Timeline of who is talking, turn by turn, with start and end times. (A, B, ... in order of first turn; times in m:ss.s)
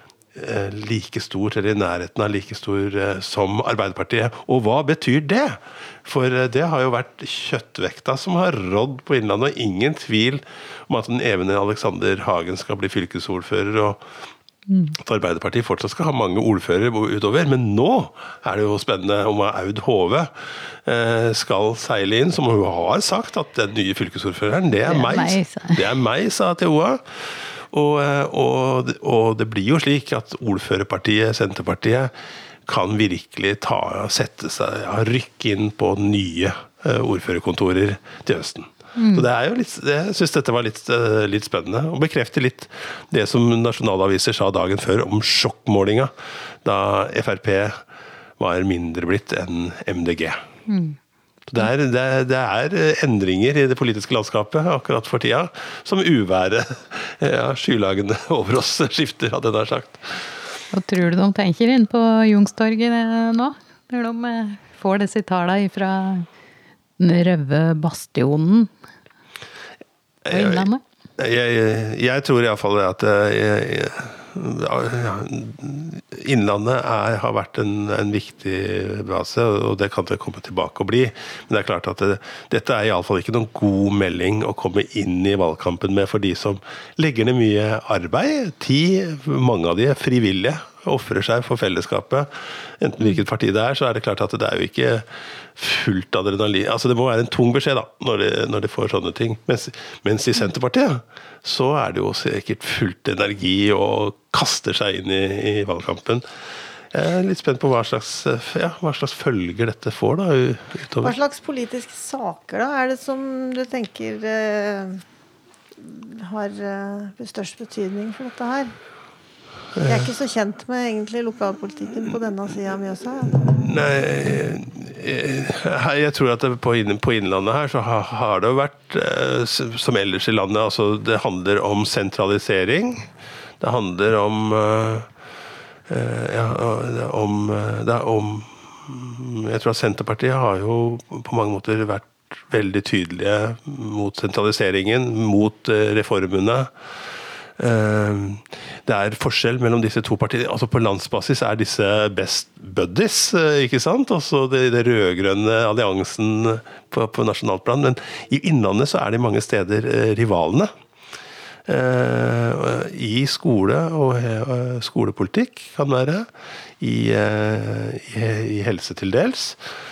0:00.3-0:14.0 A
0:14.7-0:14.9 B
0:15.0-0:20.3 A
0:20.8-0:32.1 A
0:24.8-0:25.8 B
0:32.7-0:47.8 A
0:39.0-0:39.2 B
0:48.4-0:50.4 A
0:50.7-0:51.0 B
0:51.5-1:00.3 A
1:00.7-1:06.3 B
1:07.0-1:08.7 B
1:10.2-1:10.6 A
1:10.3-1:10.8 B
1:11.2-1:46.2 A
1:46.9-1:51.2 A
1:51.0-1:55.0 C
1:55.8-1:58.7 C
1:59.8-2:00.1 A
1:59.8-2:03.5 C
2:03.4-2:13.1 A
2:13.6-2:15.1 A
2:15.9-2:26.7 A
2:27.6-2:40.7 A
2:41.7-2:46.3 A
2:46.8-2:49.6 A